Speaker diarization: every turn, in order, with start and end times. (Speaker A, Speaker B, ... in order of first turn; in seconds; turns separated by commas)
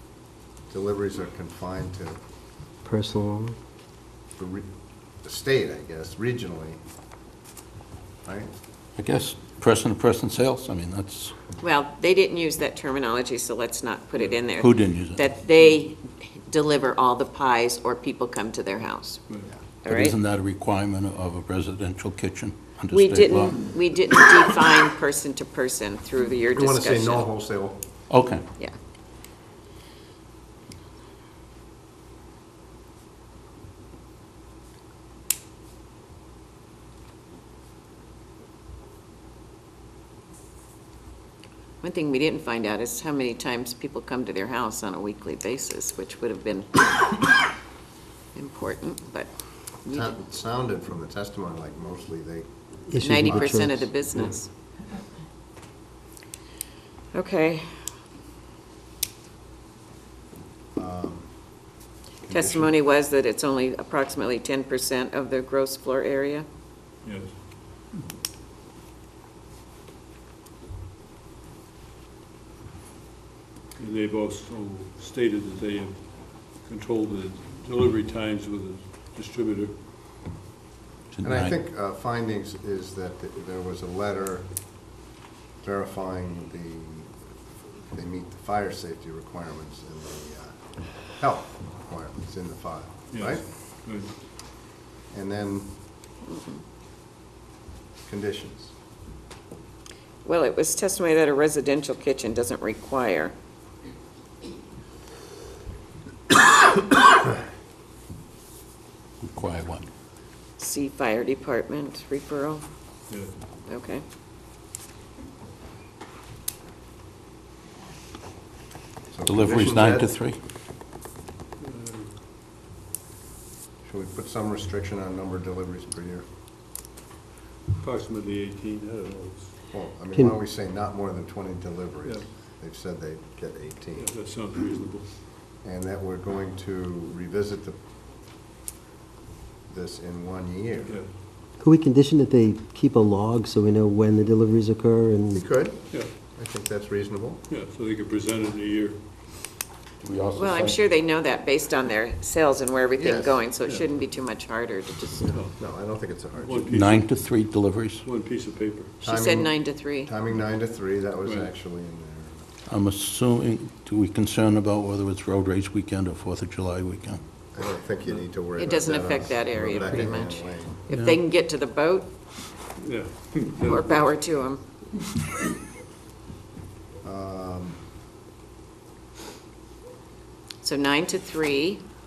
Speaker A: 0.7-2.2, Speaker B: 2.8-3.6, Speaker A: 4.4-4.7, Speaker A: 5.2-6.8, Speaker A: 8.2-8.5, Speaker C: 9.0-11.4, Speaker D: 11.6-20.1, Speaker C: 14.6-15.2, Speaker C: 19.9-23.8, Speaker D: 22.9-27.3, Speaker A: 26.5-27.8, Speaker C: 28.1-28.4, Speaker D: 41.8-47.1, Speaker D: 48.3-49.3, Speaker D: 49.9-50.1, Speaker A: 49.9-52.5, Speaker B: 52.9-53.9, Speaker D: 53.0-54.5, Speaker A: 53.0-53.6, Speaker D: 57.1-57.7, Speaker A: 60.8-61.6, Speaker A: 62.3-62.7, Speaker D: 62.3-66.5, Speaker E: 67.0-67.4, Speaker E: 73.8-79.7, Speaker C: 81.1-81.6, Speaker A: 81.2-84.8, Speaker A: 85.6-87.3, Speaker A: 87.8-93.5, Speaker E: 93.1-94.1, Speaker A: 95.1-95.7, Speaker D: 96.3-96.6, Speaker A: 98.1-98.8, Speaker D: 100.2-103.3, Speaker C: 109.2-109.9, Speaker D: 110.6-112.6, Speaker D: 113.7-114.0, Speaker A: 119.1-120.1, Speaker C: 119.3-120.4, Speaker E: 121.6-122.2, Speaker A: 123.8-126.3, Speaker E: 127.8-129.5, Speaker A: 129.7-134.1, Speaker E: 134.0-135.1, Speaker A: 135.6-137.8, Speaker A: 139.7-141.0, Speaker E: 140.9-141.1, Speaker B: 141.6-145.4, Speaker A: 145.4-147.4, Speaker E: 147.5-149.0, Speaker C: 150.0-150.8, Speaker D: 150.4-155.5, Speaker A: 153.0-153.4, Speaker A: 155.6-156.7, Speaker E: 156.4-156.7, Speaker C: 156.7-158.1, Speaker E: 158.1-158.8, Speaker D: 159.0-160.1, Speaker A: 159.0-162.4, Speaker C: 162.7-167.2, Speaker A: 167.5-170.8, Speaker D: 168.6-172.1, Speaker C: 170.9-171.2, Speaker E: 172.8-174.0, Speaker D: 173.6-174.6, Speaker A: 177.0-177.8, Speaker D: 180.6-181.8